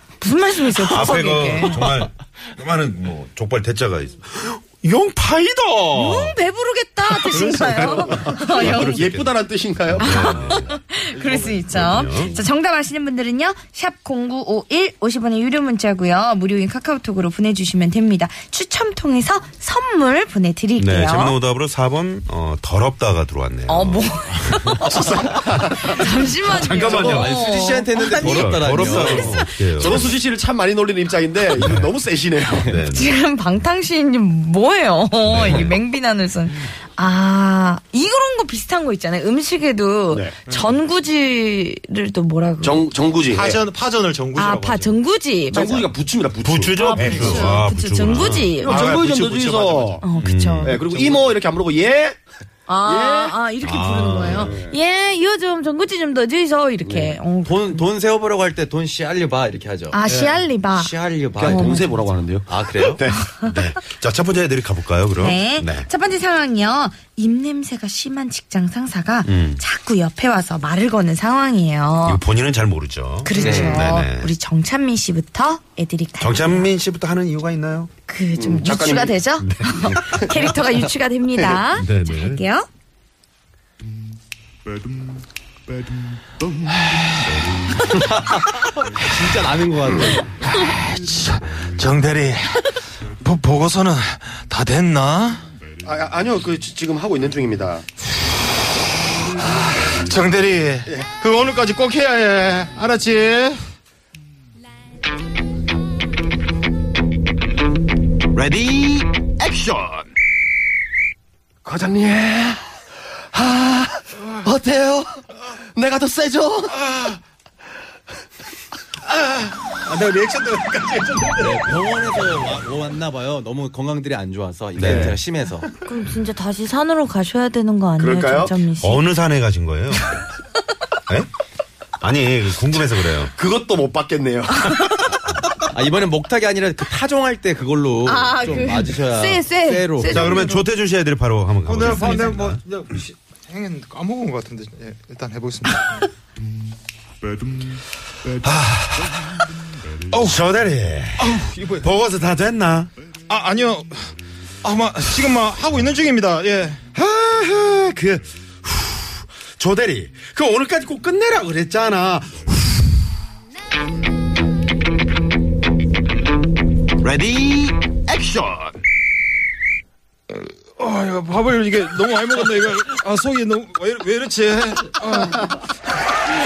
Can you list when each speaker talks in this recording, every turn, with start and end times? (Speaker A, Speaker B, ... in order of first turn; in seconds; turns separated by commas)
Speaker A: 0.2-1.8, Speaker B: 0.7-6.4, Speaker A: 5.9-9.1, Speaker C: 7.2-8.4, Speaker D: 8.2-10.6, Speaker B: 8.2-10.7, Speaker A: 10.0-21.4, Speaker B: 11.7-12.4, Speaker B: 20.8-24.8, Speaker A: 23.7-29.3, Speaker D: 24.8-26.1, Speaker B: 26.4-27.4, Speaker D: 26.8-27.1, Speaker E: 26.8-29.4, Speaker B: 28.1-30.1, Speaker D: 28.9-32.7, Speaker B: 31.6-31.9, Speaker B: 32.6-33.1, Speaker A: 32.9-42.8, Speaker B: 35.2-35.8, Speaker D: 40.1-40.4, Speaker D: 42.6-43.6, Speaker C: 43.3-45.0, Speaker A: 44.4-45.9, Speaker D: 45.5-47.4, Speaker B: 46.4-48.6, Speaker A: 46.8-48.9, Speaker C: 46.9-47.6, Speaker C: 48.6-50.0, Speaker D: 48.6-50.0, Speaker A: 50.0-50.8, Speaker B: 50.2-50.9, Speaker D: 50.6-52.2, Speaker C: 50.9-51.2, Speaker A: 52.7-57.8, Speaker D: 52.8-53.4, Speaker B: 53.6-54.6, Speaker D: 54.2-54.8, Speaker D: 56.8-57.2, Speaker E: 57.4-60.0, Speaker A: 59.9-60.9, Speaker C: 60.1-60.4, Speaker E: 60.7-61.8, Speaker D: 61.3-63.2, Speaker A: 61.4-62.0, Speaker E: 62.5-63.0, Speaker A: 63.1-63.5, Speaker B: 63.4-65.9, Speaker A: 65.2-72.2, Speaker B: 69.2-69.6, Speaker B: 72.0-74.3, Speaker A: 73.2-76.7, Speaker E: 73.3-73.9, Speaker B: 76.2-77.9, Speaker A: 78.1-82.7, Speaker D: 78.3-79.2, Speaker B: 79.4-80.2, Speaker B: 81.7-82.4, Speaker E: 87.9-90.3, Speaker C: 90.5-95.4, Speaker D: 95.8-97.8, Speaker D: 99.5-99.9, Speaker C: 99.5-103.6, Speaker B: 108.3-109.9, Speaker D: 111.6-112.8, Speaker D: 113.3-116.8, Speaker C: 116.7-117.2, Speaker C: 119.0-121.7, Speaker E: 121.4-125.7, Speaker B: 124.8-125.2, Speaker D: 124.8-125.1, Speaker A: 125.8-129.0, Speaker D: 128.0-128.6, Speaker B: 128.8-130.2, Speaker B: 132.0-133.3, Speaker D: 133.3-135.1, Speaker E: 135.7-140.3, Speaker A: 138.1-140.7, Speaker B: 140.1-142.6, Speaker C: 141.6-146.1, Speaker B: 148.4-149.3, Speaker C: 150.1-150.4, Speaker B: 150.1-152.9, Speaker C: 151.2-151.5, Speaker C: 153.3-154.1, Speaker C: 154.6-156.8, Speaker B: 156.9-162.9, Speaker B: 167.0-168.7, Speaker C: 170.3-175.6